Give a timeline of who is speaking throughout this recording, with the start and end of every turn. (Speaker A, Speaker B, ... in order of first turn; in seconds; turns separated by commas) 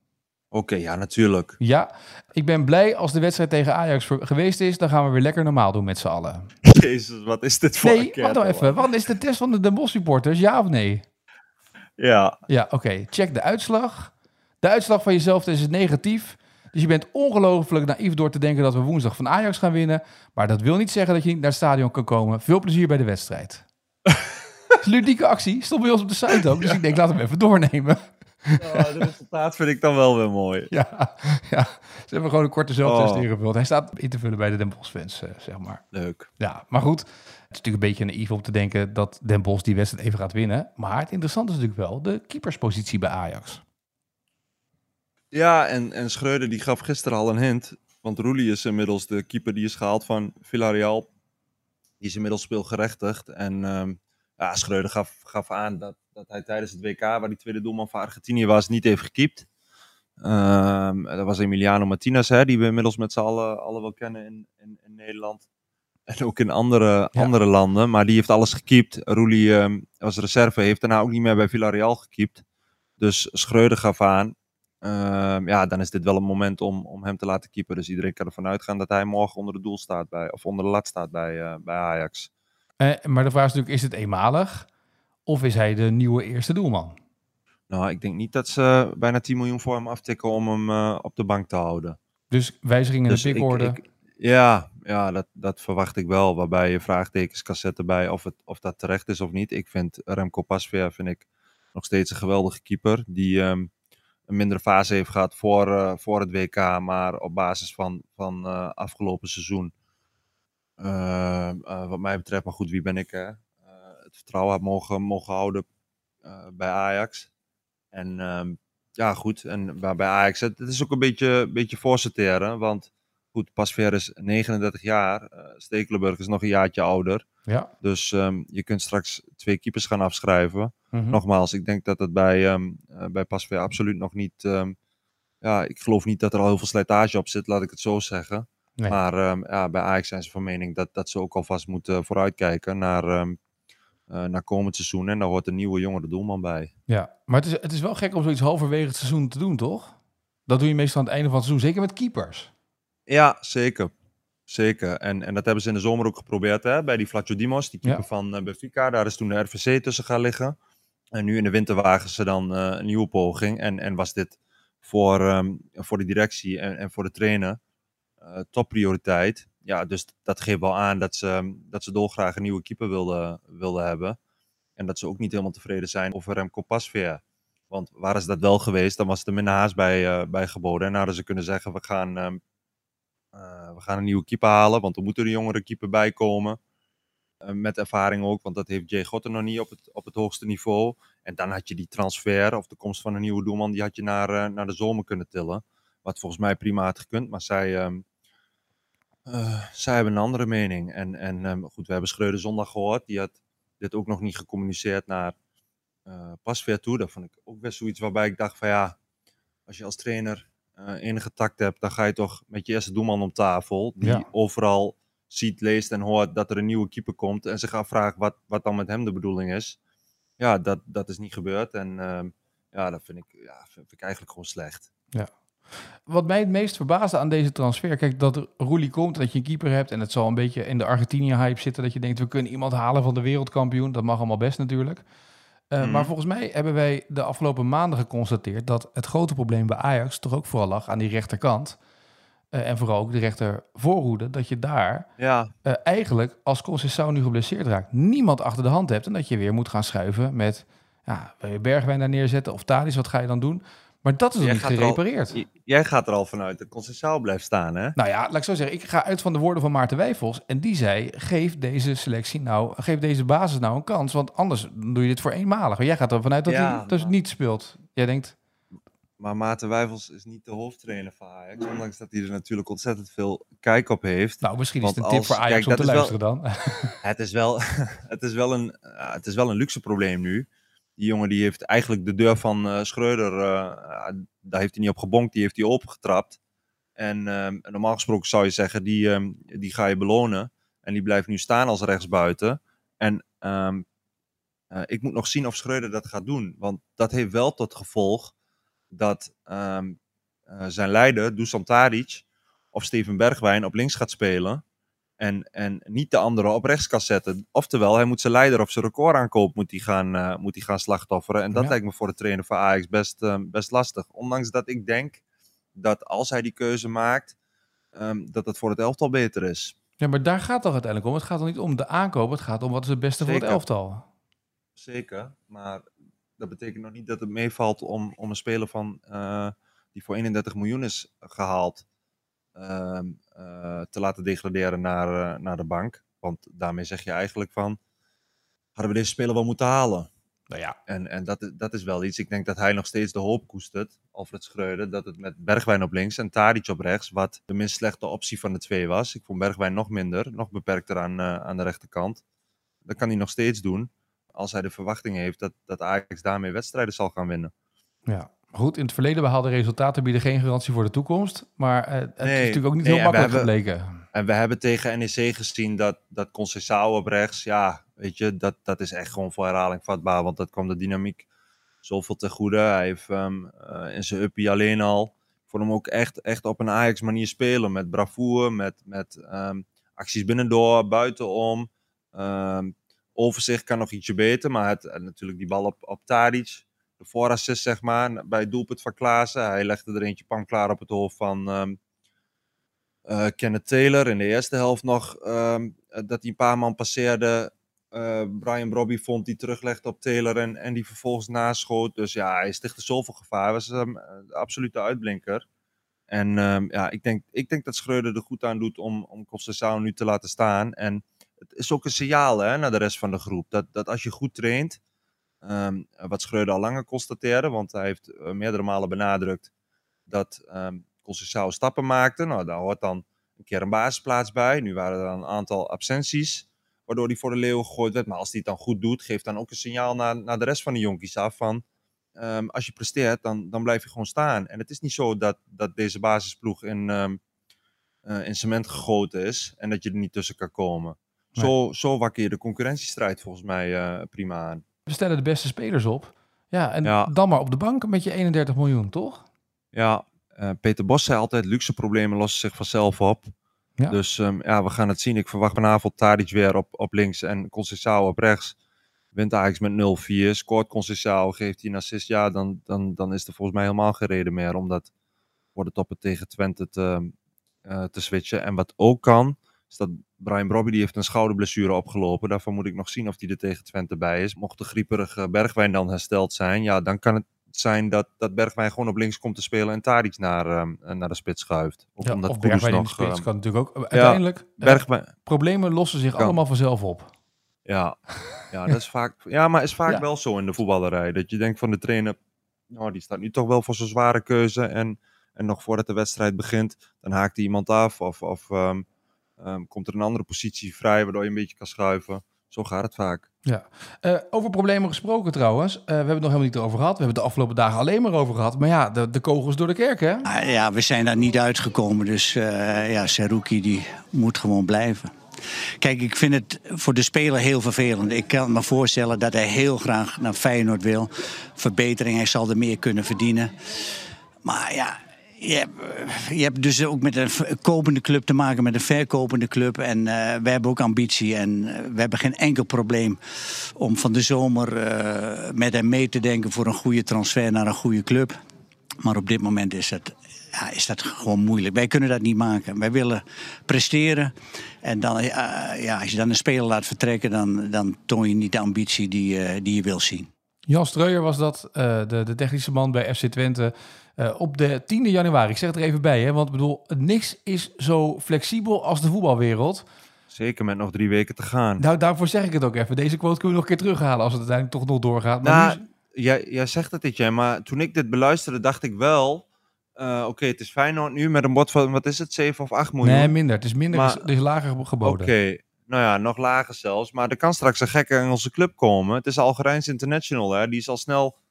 Speaker A: 0.5-1.6, Speaker B: 1.6-6.5, Speaker A: 6.6-9.1, Speaker B: 7.8-11.0, Speaker A: 12.0-12.4, Speaker B: 12.5-23.6, Speaker B: 24.8-28.8, Speaker A: 28.6-30.7, Speaker B: 30.7-35.8, Speaker A: 32.8-33.3, Speaker A: 35.9-36.3, Speaker B: 36.4-43.6, Speaker A: 45.3-51.1, Speaker A: 52.0-59.5, Speaker A: 60.2-65.4, Speaker A: 66.1-72.4, Speaker A: 73.0-82.3, Speaker B: 82.8-84.7, Speaker B: 85.3-87.0, Speaker A: 87.7-92.0, Speaker B: 92.3-93.8, Speaker A: 93.1-103.7, Speaker A: 104.3-109.7, Speaker A: 110.8-115.6, Speaker A: 116.2-117.3, Speaker A: 117.9-127.2, Speaker A: 127.8-134.8, Speaker B: 130.9-131.2, Speaker A: 135.4-143.4, Speaker A: 144.1-146.7, Speaker B: 146.9-149.9, Speaker B: 150.5-152.5, Speaker A: 153.1-153.9, Speaker A: 154.5-160.6, Speaker A: 161.1-167.6, Speaker A: 168.2-174.2, Speaker A: 174.8-182.4, Speaker A: 183.3-186.6, Speaker A: 187.4-198.0, Speaker A: 199.3-205.3, Speaker A: 206.1-208.9, Speaker A: 209.7-219.8, Speaker B: 214.0-214.3, Speaker A: 220.4-224.9, Speaker B: 225.9-235.0, Speaker B: 235.7-241.8, Speaker A: 235.8-236.1, Speaker B: 242.5-245.1, Speaker A: 245.2-245.5, Speaker B: 245.6-255.4, Speaker A: 254.4-257.9, Speaker B: 257.9-268.3, Speaker A: 266.5-267.1, Speaker A: 269.2-276.1, Speaker B: 274.4-276.9, Speaker A: 277.0-286.4, Speaker A: 287.0-293.8, Speaker A: 294.7-298.3, Speaker A: 298.9-300.0, Speaker A: 300.5-304.6, Speaker A: 305.2-315.2, Speaker A: 315.7-317.3, Speaker A: 317.9-319.7, Speaker B: 320.0-324.0, Speaker A: 323.2-323.6, Speaker A: 324.8-325.8, Speaker A: 326.4-331.8, Speaker A: 332.6-337.8, Speaker A: 338.8-340.1, Speaker B: 340.5-340.8, Speaker A: 340.9-352.2, Speaker A: 352.9-357.5, Speaker B: 358.1-364.0, Speaker A: 362.2-363.5, Speaker A: 364.1-371.2, Speaker A: 371.8-391.8, Speaker A: 393.1-405.4, Speaker A: 406.1-411.0, Speaker A: 411.5-414.8, Speaker A: 415.4-419.5, Speaker A: 420.1-431.6, Speaker A: 432.2-437.2, Speaker A: 438.0-444.6, Speaker B: 444.9-449.2, Speaker A: 446.8-447.1, Speaker A: 449.7-453.3, Speaker A: 453.9-458.5, Speaker A: 459.1-464.9, Speaker A: 465.5-467.1, Speaker A: 467.6-483.3, Speaker B: 482.0-487.1, Speaker A: 483.9-485.1, Speaker A: 487.6-492.2, Speaker A: 492.7-498.8, Speaker A: 499.4-503.3, Speaker B: 503.4-510.3, Speaker C: 510.3-515.1, Speaker C: 515.8-523.9, Speaker C: 524.4-533.2, Speaker C: 533.8-538.3, Speaker C: 539.0-550.3, Speaker B: 550.7-559.9, Speaker A: 560.3-561.8, Speaker B: 561.8-565.8, Speaker A: 565.4-569.4, Speaker A: 570.0-573.3, Speaker B: 573.0-575.3, Speaker A: 573.9-574.3, Speaker A: 575.0-581.3